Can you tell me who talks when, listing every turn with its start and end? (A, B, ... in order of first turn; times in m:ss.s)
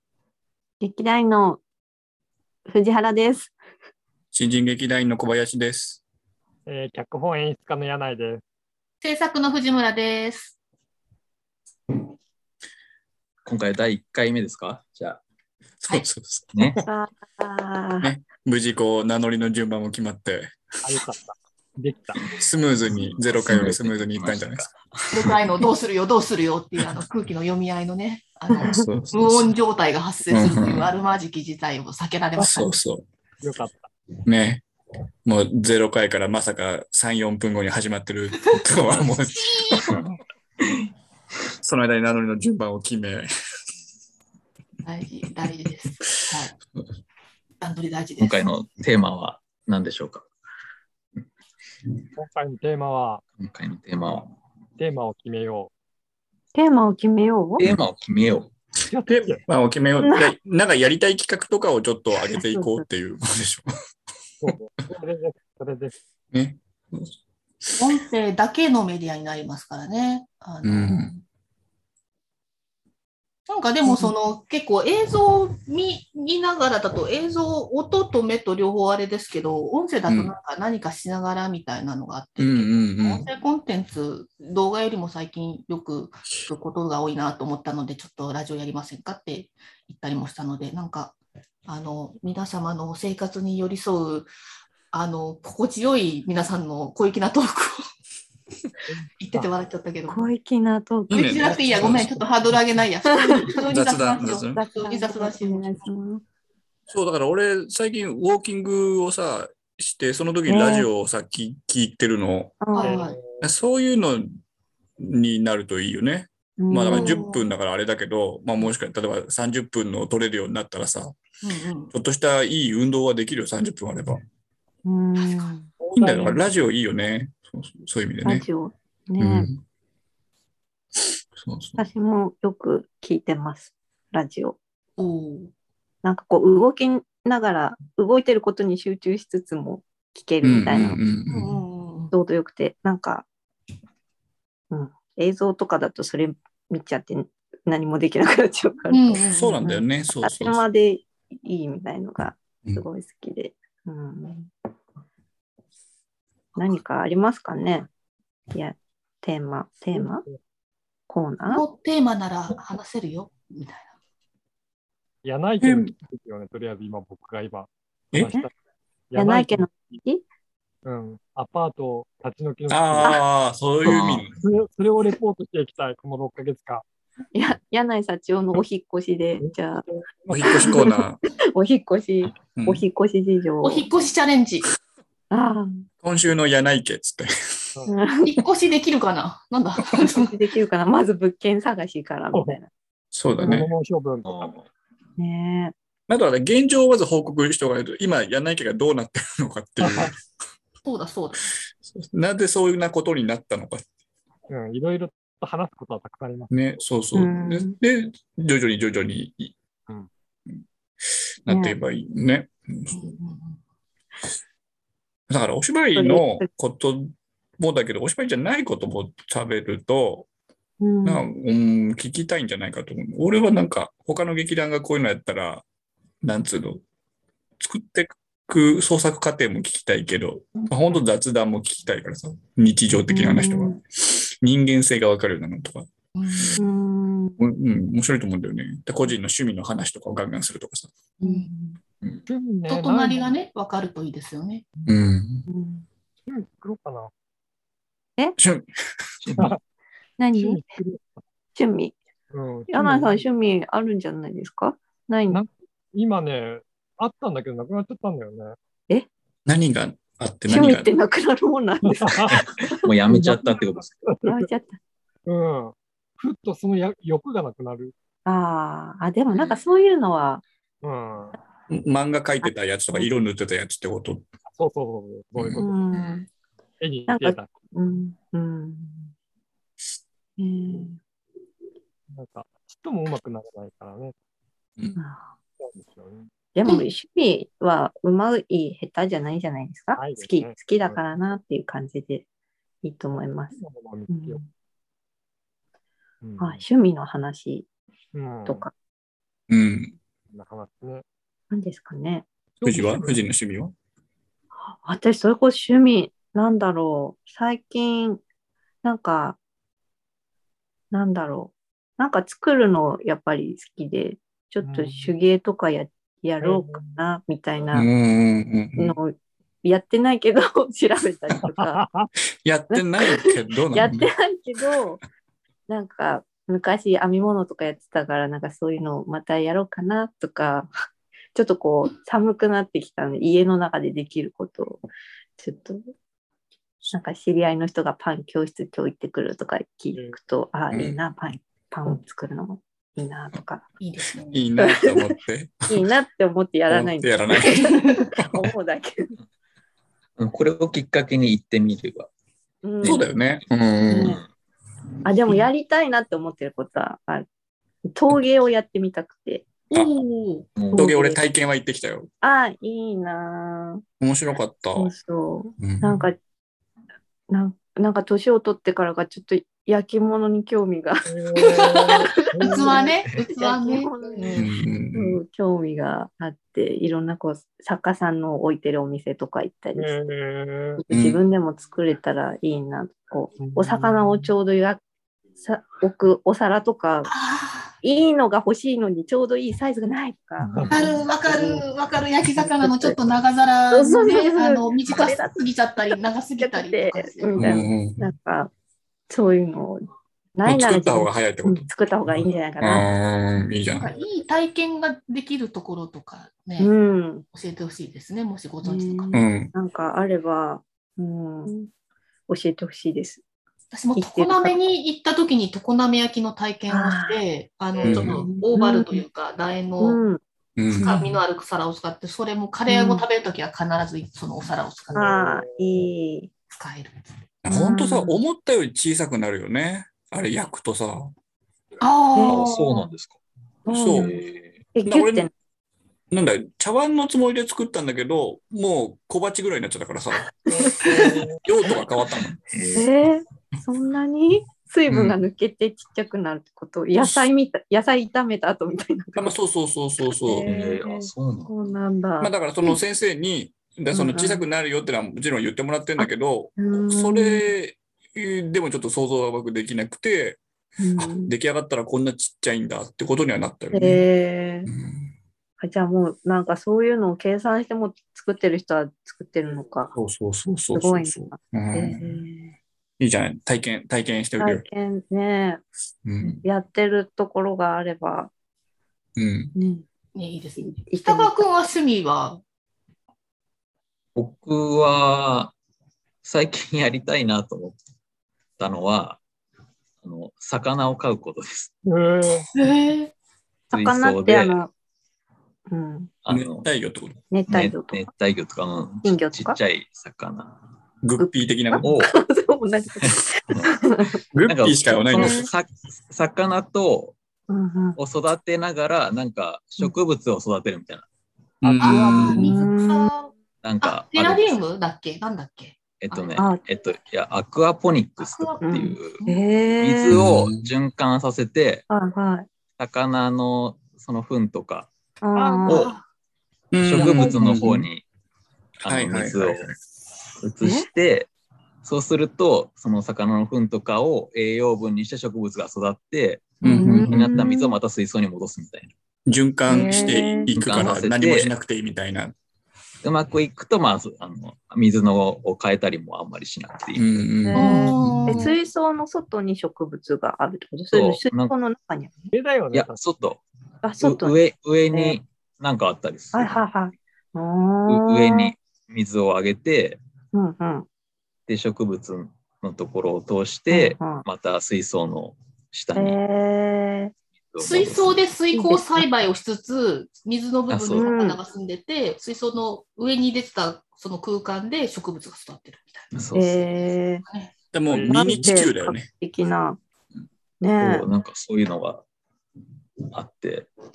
0:00.8-0:01.6 A
0:02.7-0:03.5 A
0:04.3-0:06.0 B
0:06.6-0:08.4 C
0:09.0-0:10.5 D
0:13.4-0:15.2 E
0:15.8-0:16.9 B
0:16.5-0:16.8 E
0:16.9-0:18.1 A
0:18.0-0:20.5 B
0:20.8-0:22.3 C
0:22.2-0:24.8 E
0:22.4-0:25.3 B
0:25.1-0:32.6 D
0:28.5-0:28.9 A
0:28.6-0:29.5 B
0:30.3-0:30.9 B
0:32.4-0:32.7 C
0:32.4-0:33.0 B
0:33.4-0:33.9 C
0:34.2-0:34.6 B
0:35.2-0:40.0 B
0:39.4-0:40.0 D
0:41.6-0:43.2 B
0:44.8-0:46.5 D
0:47.6-0:48.5 D
0:48.2-0:50.2 E
0:52.2-0:53.2 C
0:53.4-0:54.3 E
0:54.8-0:55.7 C
0:56.5-0:57.7 A
0:57.6-0:58.5 E
0:58.9-0:59.4 C
0:59.1-1:03.7 B
1:00.0-1:00.3 A
1:02.3-1:02.8 A
1:04.4-1:06.0 C
1:06.3-1:07.9 B
1:07.8-1:11.1 D
1:10.6-1:11.2 B
1:13.5-1:31.2 D
1:13.8-1:14.1 A
1:20.1-1:20.3 B
1:22.4-1:23.2 B
1:31.7-1:34.3 D
1:34.9-1:37.7 D
1:38.9-1:39.4 C
1:39.2-1:40.3 D
1:40.1-1:41.5 A
1:41.1-1:42.2 B
1:41.2-1:45.9 D
1:43.1-1:43.5 A
1:43.6-1:44.6 B
1:44.5-1:46.2 A
1:46.9-1:52.7 B
1:50.5-1:50.9 A
1:52.6-1:53.0 A
1:52.7-1:53.2 D
1:52.8-1:53.4 C
1:53.4-1:54.3 B
1:55.0-2:01.2 B
1:56.6-1:57.2 A
1:56.9-1:57.5 D
2:01.4-2:01.9 D
2:01.9-2:04.2 B
2:04.8-2:05.7 A
2:05.2-2:05.4 D
2:05.8-2:06.5 C
2:05.9-2:08.4 B
2:08.2-2:09.5 A
2:09.2-2:09.6 B
2:11.4-2:11.8 B
2:11.8-2:14.6 A
2:15.0-2:15.5 D
2:16.0-2:21.0 A
2:20.4-2:21.5 B
2:21.3-2:22.1 D
2:22.1-2:23.2 A
2:24.7-2:34.5 A
2:28.9-2:29.6 D
2:29.3-2:30.6 B
2:36.6-2:37.9 A
2:38.5-2:40.2 A
2:39.9-2:40.4 C
2:41.1-2:41.6 A
2:41.5-2:43.9 D
2:45.2-2:48.5 C
2:45.6-2:45.9 B
2:49.1-2:50.0 C
2:49.1-2:50.2 A
2:50.8-2:53.2 C
2:52.7-2:54.4 B
2:53.8-2:54.3 E
2:54.4-2:56.8 C
2:57.3-2:59.8 A
2:59.4-3:00.6 C
3:00.3-3:01.2 B
3:00.4-3:03.9 A
3:02.6-3:02.8 B
3:03.6-3:04.7 D
3:05.3-3:05.8 A
3:06.0-3:07.7 B
3:07.9-3:08.3 A
3:08.2-3:10.3 D
3:10.2-3:12.7 A
3:12.3-3:12.6 C
3:13.1-3:13.7 B
3:13.4-3:14.3 C
3:14.2-3:14.7 E
3:15.2-3:15.7 A
3:16.1-3:20.2 B
3:19.8-3:20.1 C
3:20.8-3:21.5 D
3:21.9-3:23.8 B
3:24.5-3:26.5 C
3:26.5-3:29.5 B
3:27.1-3:27.7 A
3:31.4-3:33.0 B
3:31.5-3:31.8 A
3:32.9-3:33.6 D
3:35.3-3:40.3 B
3:35.9-3:36.5 A
3:40.8-3:41.3 A
3:41.0-3:45.6 B
3:46.2-3:46.8 B
3:47.6-3:55.9 B
3:53.1-3:53.8 A
3:56.2-3:56.6 D
3:56.6-3:57.4 A
3:57.4-4:00.9 B
4:01.2-4:01.8 A
4:01.2-4:01.5 D
4:02.2-4:03.3 C
4:02.7-4:04.6 D
4:04.8-4:05.5 B
4:05.5-4:05.8 A
4:06.3-4:07.1 C
4:08.4-4:08.7 B
4:09.2-4:09.6 E
4:10.2-4:10.6 A
4:10.3-4:11.2 C
4:11.5-4:12.0 A
4:12.3-4:13.2 C
4:12.7-4:15.4 A
4:15.3-4:18.6 C
4:19.4-4:20.9 B
4:20.5-4:22.9 A
4:21.8-4:22.4 C
4:22.8-4:24.0 E
4:23.1-4:24.5 C
4:24.3-4:24.8 A
4:25.2-4:27.9 C
4:28.2-4:30.4 A
4:30.8-4:31.4 C
4:31.7-4:34.2 B
4:32.4-4:33.1 A
4:34.5-4:35.7 C
4:35.4-4:35.6 B
4:35.5-4:36.2 A
4:36.0-4:36.2 D
4:36.8-4:37.5 C
4:37.1-4:39.1 A
4:40.4-4:41.0 A
4:42.1-4:44.1 C
4:45.0-4:45.3 A
4:45.6-4:46.3 C
4:46.5-4:52.2 A
4:50.0-4:51.0 C
4:52.8-4:53.6 A
4:53.5-4:54.5 C
4:54.1-4:54.5 A
4:56.2-4:56.6 C
4:56.4-4:57.7 A
4:58.1-4:58.7 C
4:58.4-4:58.7 A
4:59.5-4:59.9 B
5:00.3-5:01.0 C
5:01.5-5:02.2 A
5:02.6-5:03.2 C
5:02.6-5:03.7 B
5:04.6-5:08.2 A
5:08.8-5:09.4 A
5:10.9-5:17.9 A
5:14.6-5:15.1 C
5:16.4-5:17.0 C
5:17.7-5:19.0 B
5:18.8-5:21.8 A
5:21.4-5:22.1 C
5:22.4-5:24.1 B
5:22.7-5:23.2 A
5:23.7-5:25.0 A
5:25.7-5:30.7 A
5:31.3-5:34.8 A
5:35.4-5:35.8 A
5:36.9-5:43.6 A
5:39.9-5:40.2 C
5:40.7-5:41.0 B
5:43.8-5:44.5 D
5:44.3-5:45.8 B
5:44.6-5:45.1 A
5:45.7-5:49.1 A
5:46.7-5:48.5 B
5:50.2-5:52.1 E
5:52.6-5:53.1 A
5:52.8-5:54.1 B
5:52.8-5:53.1 E
5:53.6-5:54.3 E
5:53.9-5:54.2 A
5:55.0-5:57.3 A
5:57.9-5:59.4 A
5:59.7-6:00.4 D
6:00.6-6:00.9 E
6:00.7-6:01.2 A
6:00.7-6:02.1 B
6:02.2-6:03.8 A
6:04.0-6:04.9 B
6:04.7-6:06.2 A
6:05.6-6:06.1 B
6:07.3-6:11.0 A
6:11.0-6:12.8 C
6:11.4-6:14.5 D
6:11.6-6:19.9 A
6:14.4-6:15.2 B
6:19.7-6:20.8 C
6:20.8-6:24.8 A
6:23.4-6:24.3 C
6:25.4-6:27.1 A
6:27.1-6:27.7 D
6:27.8-6:31.6 A
6:30.4-6:31.0 C
6:30.7-6:37.5 D
6:32.4-6:33.0 A
6:33.7-6:35.4 A
6:35.9-6:38.5 A
6:37.4-6:38.1 B
6:39.1-6:42.8 A
6:40.4-6:41.7 B
6:42.6-6:43.9 B
6:43.8-6:46.7 D
6:46.6-6:47.2 A
6:47.3-6:49.1 D
6:48.6-6:51.7 A
6:49.1-6:49.5 B
6:52.3-6:53.2 A
6:53.7-7:00.0 D
6:54.0-6:54.6 A
6:56.7-6:57.2 A
6:57.8-6:58.2 B
6:57.8-6:59.0 A
6:59.8-7:00.2 A
7:00.6-7:01.2 B
7:00.7-7:05.2 D
7:02.7-7:03.0 A
7:04.9-7:05.5 C
7:04.9-7:06.3 A
7:06.5-7:07.1 D
7:07.4-7:11.1 B
7:07.5-7:08.2 A
7:11.8-7:12.9 D
7:12.1-7:12.4 A
7:12.2-7:13.2 E
7:13.6-7:14.1 A
7:13.7-7:14.1 B
7:14.0-7:14.6 E
7:14.7-7:15.3 A
7:14.8-7:15.3 B
7:16.1-7:20.3 B
7:20.5-7:21.4 C
7:20.8-7:21.2 D
7:21.4-7:22.4 B
7:22.2-7:22.9 E
7:22.7-7:29.3 A
7:24.9-7:25.2 B
7:27.0-7:27.3 B
7:29.2-7:30.5 B
7:30.0-7:32.8 A
7:30.4-7:31.5 E
7:32.2-7:40.4 B
7:33.9-7:34.5 A
7:36.0-7:37.4 A
7:40.8-7:41.3 A
7:41.0-7:44.0 B
7:43.7-7:44.7 A
7:44.6-7:45.1 B
7:45.6-7:49.9 A
7:49.9-7:52.2 B
7:50.7-7:52.5 A
7:53.0-7:54.6 B
7:54.4-7:55.6 A
7:56.0-7:56.4 B
7:56.2-7:58.3 A
7:59.2-7:59.5 B
7:59.5-7:59.8 A
8:00.1-8:02.4 D
8:00.6-8:01.4 A
8:04.1-8:05.5 E
8:06.2-8:07.8 E
8:08.6-8:09.2 E
8:10.0-8:11.7 E
8:11.8-8:12.5 C
8:12.5-8:13.1 D
8:13.7-8:14.7 A
8:13.7-8:14.6 E
8:15.7-8:16.1 A
8:16.2-8:16.7 E
8:16.3-8:17.2 B
8:17.3-8:18.1 A
8:17.5-8:20.5 E
8:19.0-8:19.6 A
8:21.0-8:21.9 B
8:21.2-8:24.2 A
8:21.8-8:22.1 E
8:23.0-8:23.7 E
8:24.3-8:25.5 B
8:24.5-8:27.2 E
8:25.1-8:25.5 A
8:27.5-8:28.0 A
8:28.0-8:31.1 E
8:31.6-8:32.4 B
8:31.7-8:32.5 E
8:31.8-8:33.3 D
8:32.0-8:33.1 A
8:33.6-8:34.6 E
8:33.8-8:36.6 D
8:36.0-8:39.2 E
8:36.4-8:36.6 A
8:38.2-8:39.4 D
8:38.6-8:40.2 A
8:39.8-8:41.8 E
8:40.1-8:40.7 B
8:41.9-8:42.5 A
8:42.8-8:44.9 E
8:45.2-8:46.0 A
8:45.5-8:46.0 D
8:45.6-8:46.0 E
8:46.7-8:47.9 B
8:46.8-8:48.0 E
8:47.2-8:47.8 A
8:48.8-8:49.7 E
8:48.8-8:49.7 B
8:50.4-8:51.3 E
8:50.6-8:50.9 A
8:51.8-8:58.9 E
8:56.6-8:57.4 B
8:56.6-8:57.8 A
8:59.3-9:02.3 B
8:59.6-9:00.5 A
8:59.9-9:01.5 E
9:03.0-9:07.2 E
9:07.0-9:07.9 B
9:07.4-9:12.1 A
9:07.5-9:08.6 D
9:08.1-9:08.4 E
9:10.9-9:11.5 E
9:12.3-9:13.0 C
9:12.7-9:13.4 E
9:13.8-9:14.4 A
9:14.0-9:16.7 E
9:14.9-9:15.2 A
9:16.3-9:18.5 A
9:17.9-9:20.0 E
9:20.3-9:20.9 A
9:21.5-9:26.2 E
9:23.7-9:24.2 A
9:25.9-9:27.1 A
9:27.5-9:28.2 E
9:27.6-9:36.1 D
9:28.5-9:29.1 A
9:30.7-9:31.1 E
9:30.9-9:31.4 A
9:36.1-9:36.7 E
9:36.3-9:37.2 A
9:37.2-9:37.5 D
9:37.7-9:39.1 B
9:37.9-9:38.5 C
9:38.1-9:39.8 A
9:40.6-9:41.1 A
9:40.8-9:42.0 E
9:43.1-9:43.7 E